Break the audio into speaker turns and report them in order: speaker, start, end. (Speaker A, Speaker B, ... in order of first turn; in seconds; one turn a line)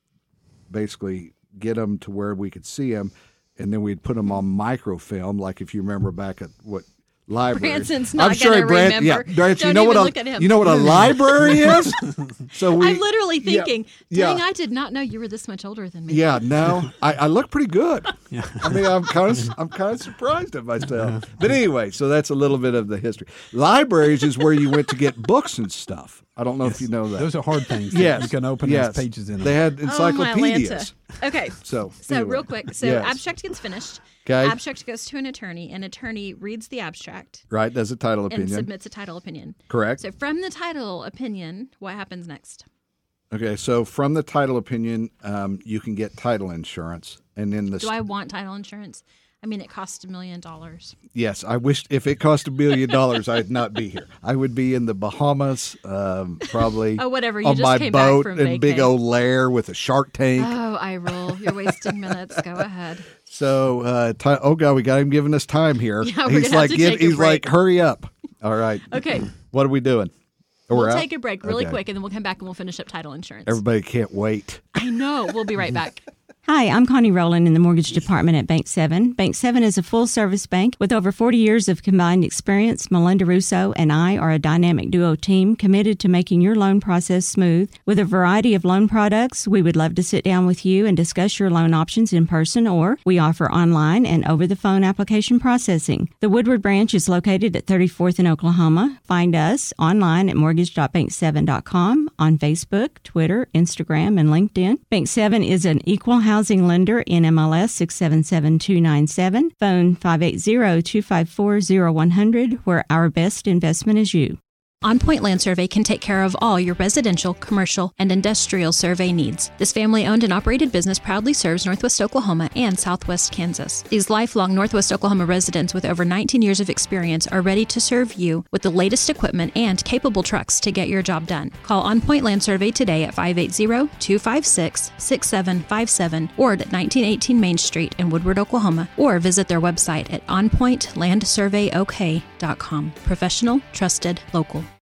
Speaker A: 0.7-14.4
Speaker B: 7.5-10.9
Speaker C: 10.8-11.7
Speaker B: 12.6-16.4
Speaker A: 16.1-27.3
Speaker C: 18.3-18.8
Speaker C: 21.1-21.4
Speaker C: 26.7-29.6
Speaker A: 27.9-30.9
Speaker B: 29.8-37.4
Speaker A: 31.5-33.2
Speaker A: 34.2-34.6
Speaker A: 37.5-38.7
Speaker B: 38.3-42.6
Speaker A: 39.7-40.0
Speaker A: 43.3-48.0
Speaker B: 47.8-51.0
Speaker A: 51.1-62.4
Speaker B: 56.5-58.9
Speaker B: 60.4-63.1
Speaker A: 63.2-70.1
Speaker B: 66.0-67.5
Speaker B: 68.9-69.3
Speaker A: 70.7-71.8
Speaker B: 70.7-73.6
Speaker A: 73.5-74.7
Speaker B: 74.7-76.1
Speaker D: 76.4-114.4
Speaker B: 114.8-144.7